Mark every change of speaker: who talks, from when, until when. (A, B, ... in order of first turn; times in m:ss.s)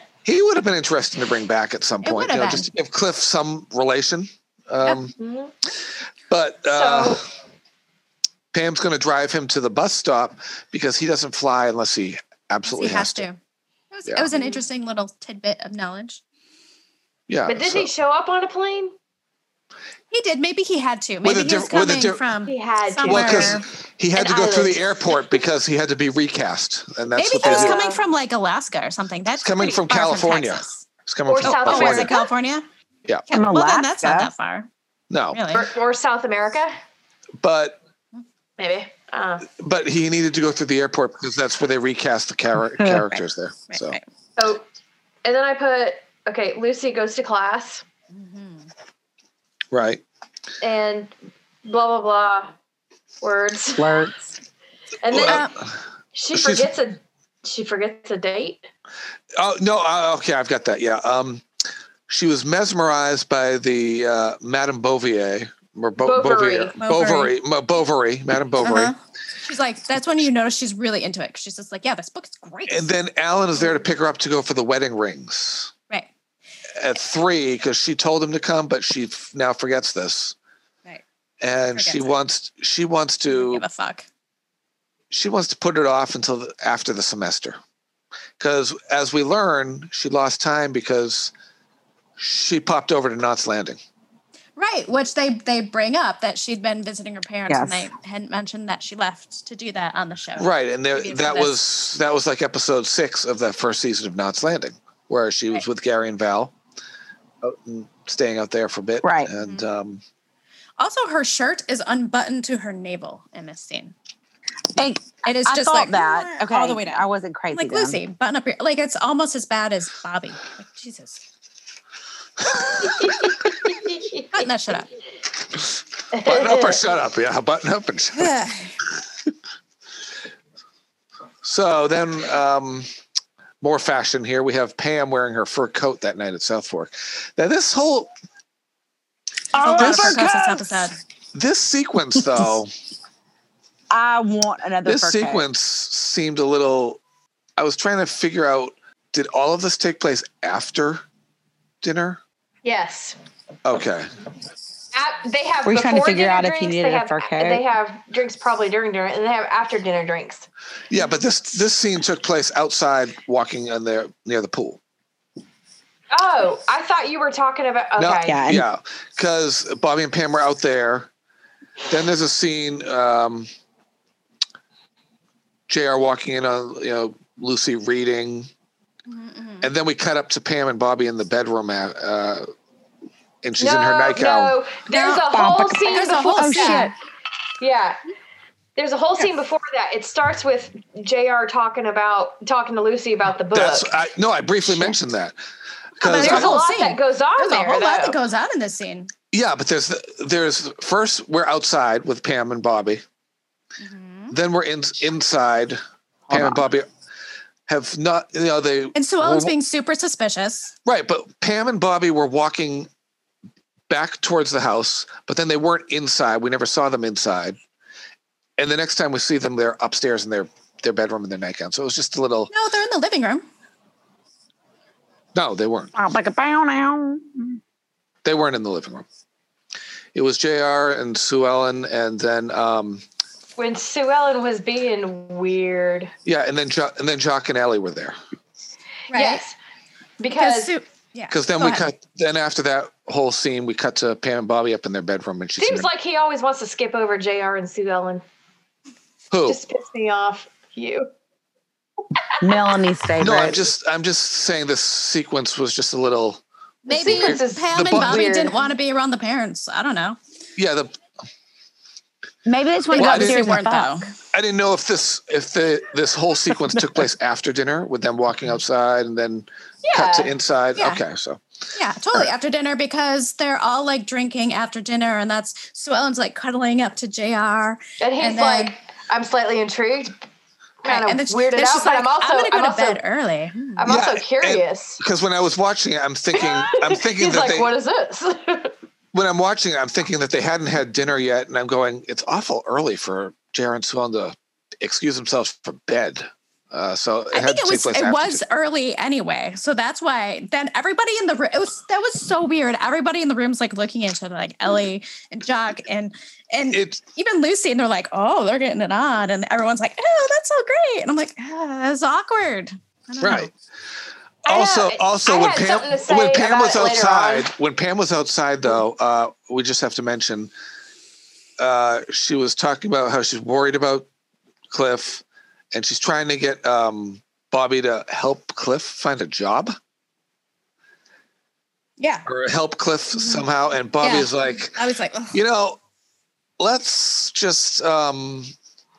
0:00.2-0:05.1 A
0:02.0-0:02.7 B
0:05.2-0:05.5 C
0:06.3-0:07.2 A
0:06.7-0:07.2 C
0:08.5-0:13.2 A
0:12.7-0:13.4 B
0:13.9-0:16.2 B
0:14.4-0:14.6 C
0:17.3-0:17.9 A
0:17.5-0:18.9 C
0:20.1-0:23.6 B
0:21.2-0:22.2 A
0:22.4-0:23.6 C
0:23.1-0:27.8 A
0:24.1-0:25.1 C
0:27.1-0:30.8 B
0:27.4-0:28.0 C
0:29.4-0:32.1 A
0:31.3-0:32.3 C
0:31.4-0:32.6 B
0:33.3-0:34.7 B
0:33.3-0:34.3 D
0:35.1-0:35.4 A
0:35.3-0:35.6 B
0:35.5-0:36.7 C
0:37.4-0:37.8 A
0:38.6-0:39.5 C
0:39.5-0:44.0 A
0:42.8-0:43.0 D
0:43.7-0:44.0 B
0:44.4-0:44.6 C
0:45.2-0:47.8 C
0:48.1-0:48.7 B
0:49.7-0:50.0 A
0:50.6-0:51.1 C
0:51.6-0:52.5 C
0:53.2-0:54.0 C
0:53.8-0:54.3 D
0:55.0-0:55.4 C
0:55.1-0:55.8 A
0:55.2-0:55.5 B
0:56.1-0:58.7 C
0:56.3-0:56.7 A
0:59.4-1:01.4 A
1:02.1-1:08.9 A
1:06.0-1:06.8 C
1:06.8-1:07.3 B
1:08.6-1:12.9 B
1:12.7-1:15.7 A
1:16.8-1:20.3 A
1:21.4-1:23.6 A
1:21.7-1:22.1 B
1:23.3-1:24.0 B
1:25.1-1:27.6 A
1:28.4-1:31.3 A
1:32.2-1:33.8 A
1:34.6-1:41.5 B
1:37.5-1:37.9 D
1:40.4-1:46.5 A
1:47.4-1:50.0 A
1:49.0-1:49.3 D
1:49.4-1:49.7 B
1:50.8-1:53.9 B
1:54.7-1:58.0 D
1:55.2-1:57.0 B
1:57.5-2:01.2 B
2:02.5-2:03.2 A
2:02.8-2:04.4 C
2:04.3-2:04.9 B
2:06.1-2:06.9 C
2:06.2-2:08.3 A
2:08.1-2:08.7 B
2:11.4-2:12.9 A
2:13.6-2:18.1 A
2:19.5-2:20.7 D
2:19.5-2:21.0 B
2:19.7-2:20.3 A
2:21.3-2:22.7 A
2:23.9-2:25.4 D
2:24.8-2:27.0 A
2:27.6-2:31.0 A
2:31.8-2:32.2 A
2:32.6-2:33.2 C
2:33.6-2:34.1 A
2:34.9-2:40.4 C
2:35.6-2:37.6 D
2:40.9-2:44.8 A
2:46.1-2:48.4 C
2:48.0-2:51.1 A
2:48.2-2:48.7 D
2:51.9-2:53.5 A
2:55.7-2:58.5 A
2:59.1-2:59.7 B
2:59.6-3:02.4 A
3:03.4-3:04.5 A
3:03.6-3:06.9 C
3:04.9-3:05.2 B
3:05.1-3:06.9 D
3:05.8-3:06.9 B
3:07.6-3:08.0 C
3:08.8-3:13.9 C
3:13.5-3:15.4 A
3:16.0-3:16.5 A
3:16.0-3:19.1 B
3:16.1-3:18.2 C
3:19.3-3:23.0 A
3:23.8-3:24.3 B
3:24.3-3:26.9 A
3:26.3-3:26.6 D
3:27.7-3:29.5 A
3:28.9-3:30.7 B
3:30.8-3:32.9 A
3:33.9-3:37.6 A
3:38.6-3:42.5 A
3:42.5-3:43.4 B
3:45.3-3:45.9 A
3:46.0-3:47.6 D
3:48.2-3:49.0 A
3:50.1-3:53.0 A
3:53.6-3:56.1 C
3:56.2-3:58.2 A
3:59.1-3:59.4 B
3:59.1-3:59.5 C
4:00.2-4:00.7 C
4:00.4-4:01.9 B
4:01.3-4:05.9 A
4:05.6-4:08.2 C
4:09.3-4:09.6 A
4:09.4-4:11.0 C
4:12.4-4:13.6 D
4:13.2-4:16.4 A
4:16.8-4:18.6 C
4:16.9-4:20.2 B
4:17.1-4:18.2 A
4:20.6-4:20.9 A
4:22.4-4:24.0 D
4:22.9-4:24.1 B
4:22.9-4:23.5 A
4:24.3-4:31.4 A
4:29.8-4:30.3 C
4:30.8-4:31.0 B
4:31.7-4:38.7 B
4:38.0-4:40.1 C
4:40.8-4:43.0 C
4:40.8-4:43.9 B
4:43.8-4:45.0 C
4:43.9-4:47.7 A
4:46.3-4:48.7 C
4:49.1-4:58.4 A
4:57.3-5:13.5 B
5:06.7-5:07.0 A
5:13.2-5:13.5 A
5:14.4-5:17.5 C
5:14.4-5:20.5 A
5:21.6-5:24.1 A
5:24.7-5:29.7 A
5:32.0-5:32.3 B
5:32.2-5:34.8 A
5:33.1-5:33.4 B
5:34.0-5:35.4 B
5:35.3-5:35.8 A
5:36.6-5:38.5 A